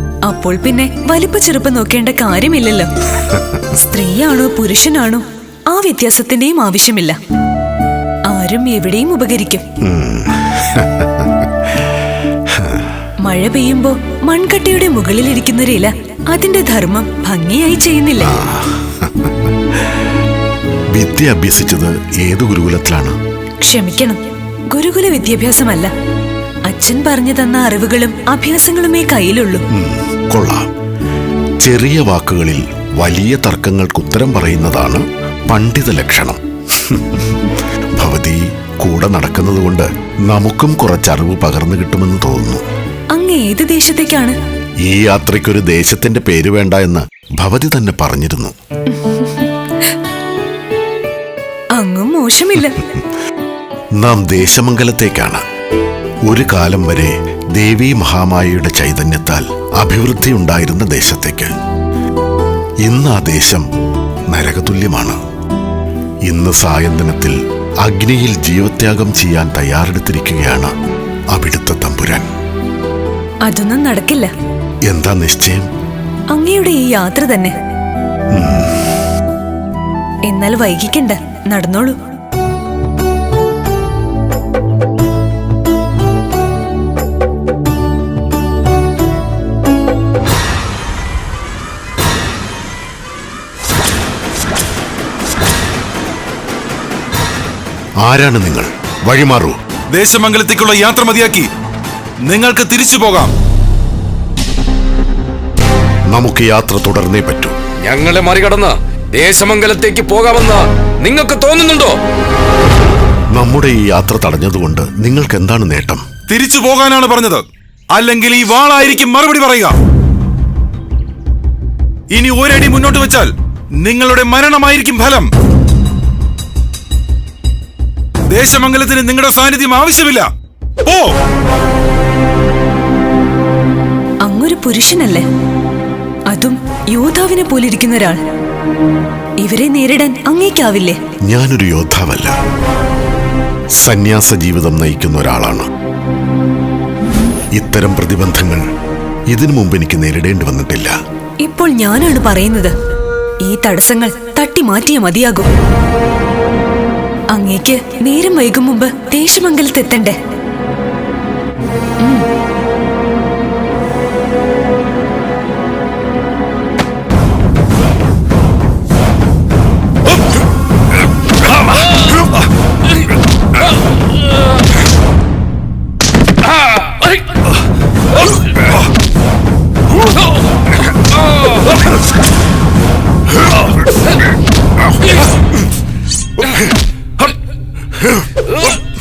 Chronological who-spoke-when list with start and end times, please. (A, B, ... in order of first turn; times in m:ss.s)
0:00.3-0:02.9 A
0:03.7-0:07.2 A
0:08.3-0:09.6 A
0:09.8-0:11.7 B
0:12.5-0:12.9 B
0:13.2-0:18.4 A
0:18.2-0:19.4 B
0:20.9-0:23.2 B
0:23.6-0:25.9 A
0:26.7-0:29.6 A
0:29.7-0:30.7 B
0:31.6-0:42.6 B
0:43.2-0:44.4 A
0:44.9-0:48.5 B
0:49.0-0:49.5 A
0:51.8-0:52.8 A
0:54.0-0:55.4 B
0:56.3-1:01.5 B
1:02.8-1:03.6 B
1:04.3-1:05.2 B
1:06.3-1:10.7 B
1:11.3-1:12.3 B
1:13.4-1:14.3 A
1:14.9-1:15.7 B
1:16.3-1:17.5 A
1:18.3-1:18.9 B
1:20.3-1:22.0 A
1:38.0-1:39.6 B
1:39.9-1:41.5 C
1:42.3-1:43.3 C
1:46.1-1:47.6 B
1:47.8-1:52.0 D
1:53.3-1:56.0 B
1:56.3-1:59.8 C
2:02.1-2:03.3 C
2:03.8-2:05.3 C
2:08.3-2:10.3 C
2:10.8-2:11.2 C
2:14.2-2:15.2 A
2:16.3-2:18.2 A
2:19.4-2:21.0 A
2:21.3-2:22.4 B
2:23.8-2:25.6 B
2:27.6-2:28.6 B
2:29.3-2:31.0 B
2:31.4-2:32.7 A
2:33.4-2:35.5 A
2:37.3-2:40.2 A